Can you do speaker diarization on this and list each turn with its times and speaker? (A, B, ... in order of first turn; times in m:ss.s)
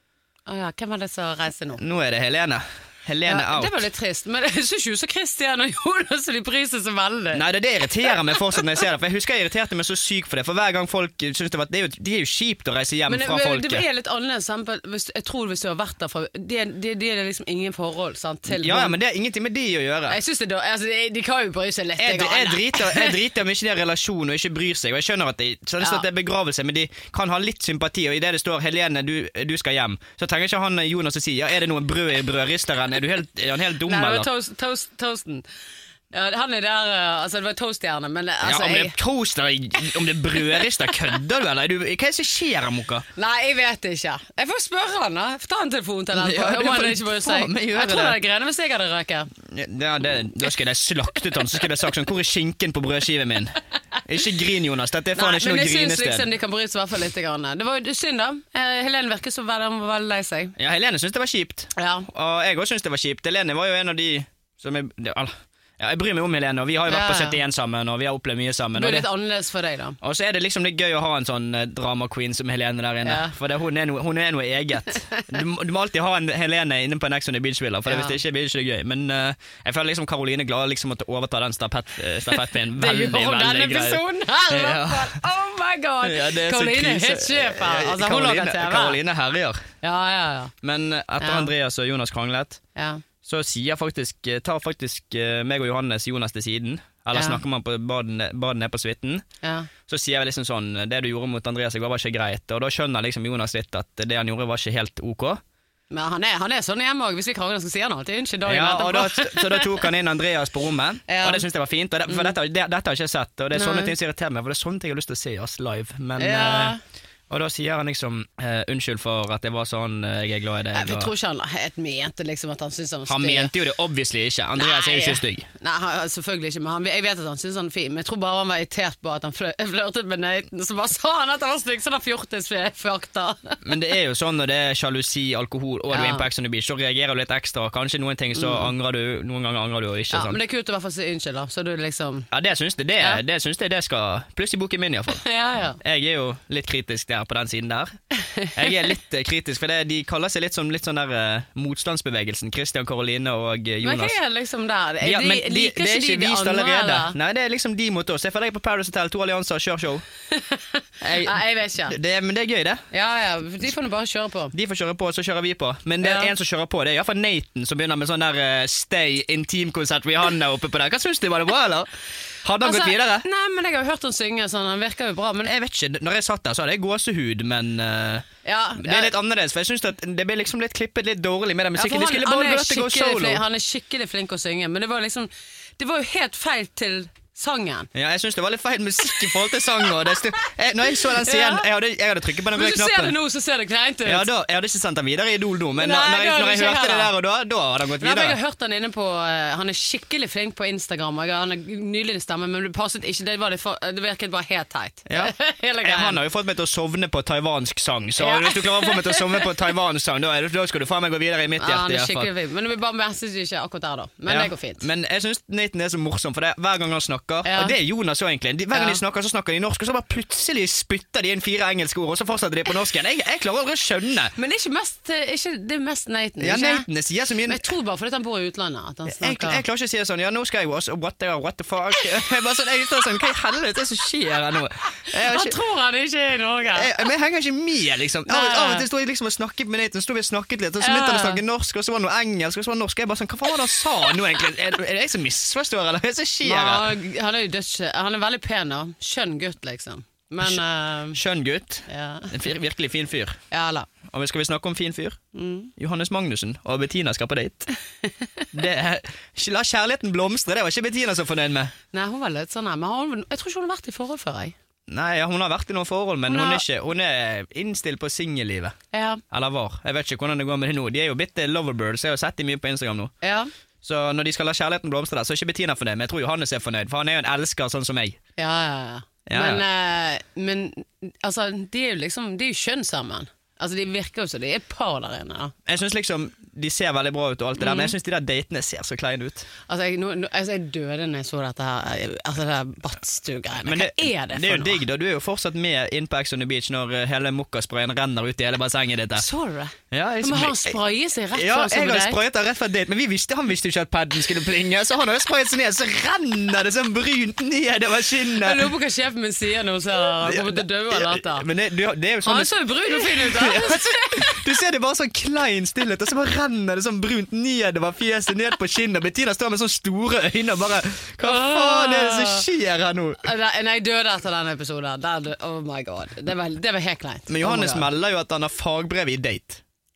0:00.5-0:01.8 A
0:01.8-0:03.8 B
0:03.3-0:07.4 A
0:07.3-0:13.8 B
0:13.1-0:19.0 A
0:18.5-0:20.2 B
0:20.1-0:23.2 A
0:22.0-0:34.3 B
0:33.8-0:35.4 A
0:36.1-0:39.0 A
0:38.4-0:43.0 B
0:43.2-0:49.3 A
0:46.1-0:48.2 B
0:49.4-0:56.3 B
0:55.2-1:00.6 A
1:00.6-1:09.1 B
1:01.8-1:02.1 A
1:06.9-1:07.4 A
1:08.8-1:10.0 A
1:10.0-1:25.2 B
1:13.0-1:13.3 A
1:17.9-1:18.2 A
1:22.5-1:29.0 A
1:26.0-1:29.7 B
1:29.8-1:30.5 A
1:30.6-1:32.6 B
1:31.2-1:31.5 A
1:32.8-1:33.0 A
1:33.2-1:39.2 B
1:37.1-1:37.4 A
1:39.4-1:39.7 A
1:39.9-1:45.4 B
1:45.9-1:49.8 A
1:48.4-1:56.8 B
1:51.1-1:51.5 A
1:53.5-1:53.9 A
1:56.2-1:56.8 A
1:57.3-2:01.1 B
2:00.7-2:03.5 A
2:03.1-2:05.5 B
2:04.6-2:13.6 A
2:13.6-2:20.4 B
2:15.9-2:16.3 A
2:18.3-2:18.7 A
2:20.1-2:22.3 A
2:22.3-2:25.2 B
2:25.1-2:25.8 A
2:25.8-2:27.9 B
2:28.2-2:28.9 A
2:28.5-2:34.2 B
2:33.8-2:37.2 A
2:35.0-2:40.0 B
2:40.3-2:42.0 A
2:41.0-2:42.8 B
2:42.9-2:44.5 A
2:44.5-2:51.9 B
2:46.0-2:46.3 A
2:52.4-2:53.3 B
2:52.6-2:55.5 A
2:55.4-3:03.4 B
2:58.4-2:59.1 A
3:01.8-3:07.9 A
3:07.9-3:13.2 B
3:11.0-3:11.7 A
3:12.5-3:14.3 A
3:14.0-3:18.4 B
3:15.8-3:17.1 A
3:18.0-3:26.2 A
3:25.1-3:32.3 B
3:28.2-3:29.5 A
3:31.6-3:34.8 A
3:34.3-3:44.3 B
3:37.4-3:37.8 A
3:38.7-3:39.0 A
3:44.4-3:46.9 A
3:46.4-3:47.6 B
3:47.4-3:49.6 A
3:49.1-3:55.6 B
3:55.1-3:57.0 A
3:56.7-4:06.9 B
3:58.3-3:58.9 A
4:00.8-4:01.4 A
4:06.4-4:11.2 A
4:11.1-4:13.4 B
4:11.9-4:12.3 A
4:13.5-4:13.9 A
4:14.0-4:15.2 B
4:15.3-4:15.7 A
4:15.8-4:17.7 B
4:18.0-4:18.4 A
4:18.5-4:21.7 B
4:21.9-4:24.6 A
4:24.9-4:28.8 B
4:26.3-4:26.6 A
4:28.9-4:29.2 A
4:29.3-4:33.1 B
4:33.2-4:33.5 A
4:33.8-4:38.2 B
4:38.4-4:45.5 A
4:39.3-4:39.6 B
4:45.7-4:49.5 B
4:47.6-4:47.9 A
4:49.7-4:54.8 A
4:53.6-4:59.3 B
4:59.2-5:02.2 A
4:59.9-5:00.8 B
5:01.3-5:08.7 B
5:08.4-5:11.5 A
5:10.2-5:23.2 B
5:12.2-5:14.4 A
5:21.2-5:22.4 A
5:23.2-5:27.9 A
5:27.3-5:29.6 B